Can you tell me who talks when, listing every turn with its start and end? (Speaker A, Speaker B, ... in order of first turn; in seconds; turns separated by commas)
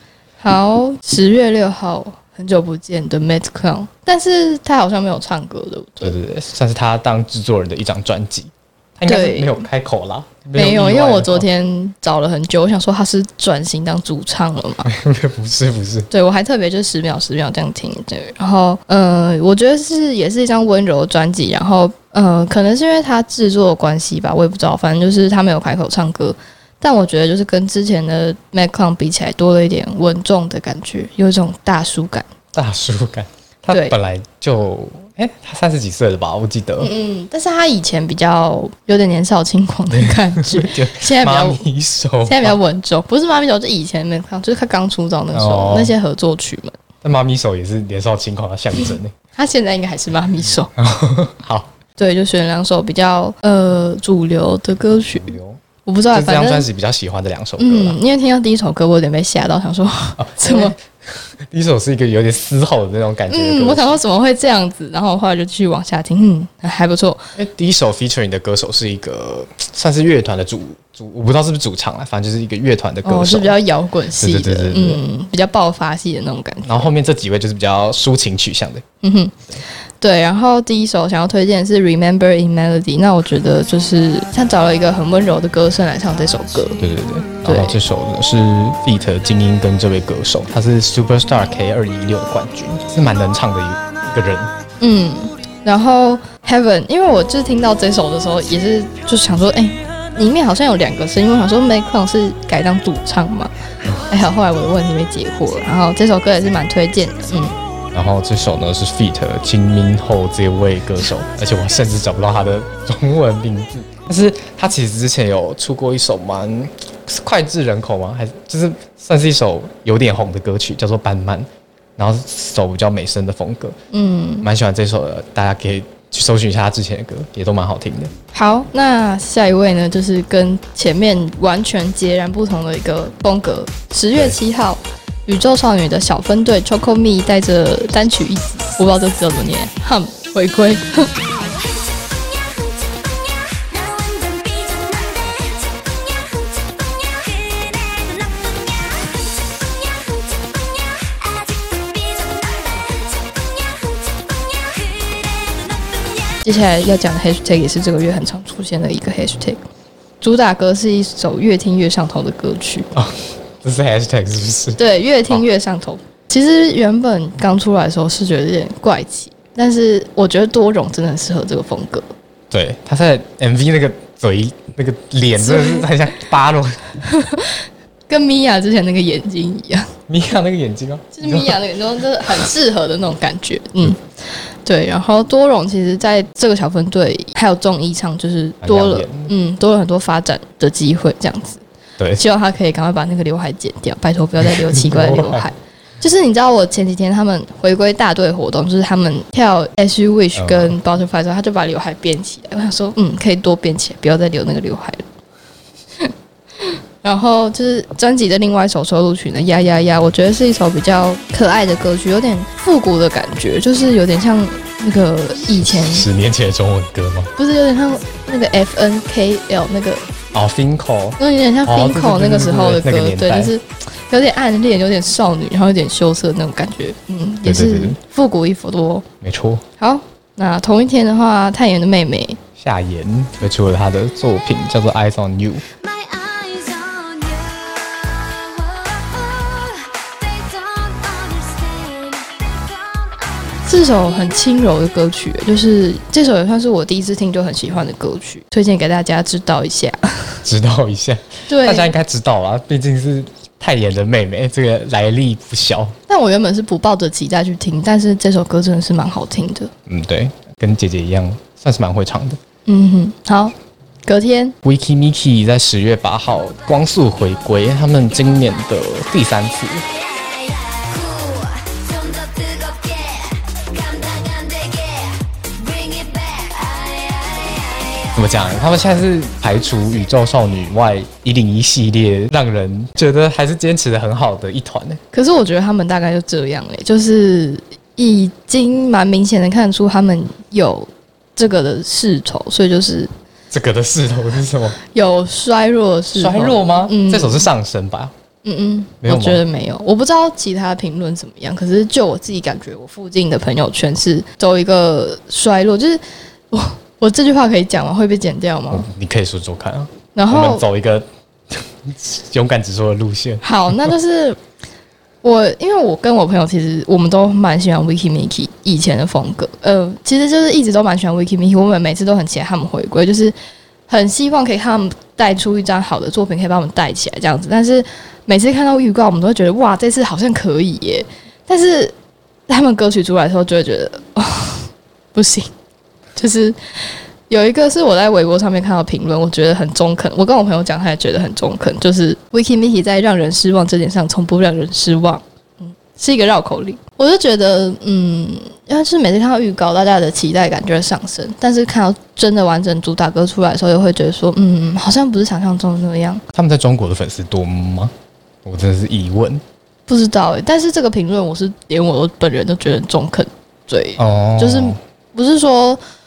Speaker A: 0.4-6.1, Speaker B: 6.0-11.4, Speaker A: 9.1-9.7, Speaker A: 10.5-14.9, Speaker B: 14.8-16.1, Speaker A: 16.1-32.3, Speaker B: 32.5-36.9, Speaker A: 36.8-41.6, Speaker B: 39.9-42.6, Speaker A: 42.2-46.8, Speaker B: 45.3-45.9, Speaker B: 47.0-49.1, Speaker A: 49.4-50.7, Speaker B: 50.7-51.7, Speaker A: 52.0-56.7, Speaker B: 55.1-58.0, Speaker A: 57.6-60.8, Speaker B: 60.2-64.0, Speaker A: 63.3-67.3, Speaker B: 67.3-73.5, Speaker A: 73.0-76.9, Speaker B: 74.2-75.0, Speaker B: 76.6-78.8, Speaker A: 79.0-79.4, Speaker A: 80.0-86.8, Speaker B: 86.8-94.5, Speaker A: 87.4-87.8, Speaker A: 94.8-103.5, Speaker A: 104.1-107.5, Speaker B: 107.9-123.8, Speaker A: 123.9-124.5, Speaker B: 124.4-128.1, Speaker A: 128.3-141.2, Speaker C: 141.4-156.4, Speaker A: 156.4-159.6, Speaker A: 160.2-162.9, Speaker B: 162.9-165.4, Speaker A: 164.8-172.1, Speaker B: 172.5-176.9, Speaker A: 175.4-175.9, Speaker A: 177.0-179.9, Speaker B: 180.1-181.6, Speaker A: 181.2-184.0, Speaker A: 184.6-191.6, Speaker B: 188.6-189.3, Speaker A: 192.2-205.0, Speaker B: 194.4-195.5, Speaker B: 200.3-200.7, Speaker A: 206.0-216.1, Speaker B: 215.6-217.3, Speaker A: 217.4-220.1, Speaker B: 220.3-223.5, Speaker A: 221.2-229.1, Speaker B: 227.4-228.0, Speaker B: 229.2-229.6, Speaker A: 229.8-232.4, Speaker B: 232.6-235.6, Speaker C: 235.7-244.2, Speaker A: 243.7-250.4, Speaker B: 250.4-255.9, Speaker A: 251.5-251.9, Speaker A: 256.1-259.7, Speaker B: 259.9-262.4, Speaker A: 262.6-264.6, Speaker B: 264.6-269.8, Speaker C: 269.9-278.2, Speaker B: 278.1-285.0, Speaker A: 285.1-293.1, Speaker B: 293.5-294.8, Speaker A: 294.8-297.5, Speaker B: 296.1-298.1, Speaker A: 298.4-308.9, Speaker B: 299.0-299.4, Speaker B: 308.7-313.9, Speaker A: 310.1-310.6, Speaker A: 313.4-314.4, Speaker A: 315.2-323.3, Speaker A: 323.9-331.9, Speaker A: 332.5-335.5, Speaker A: 336.1-356.2, Speaker B: 356.3-357.9, Speaker B: 358.4-359.4, Speaker A: 359.9-365.8, Speaker B: 364.0-364.8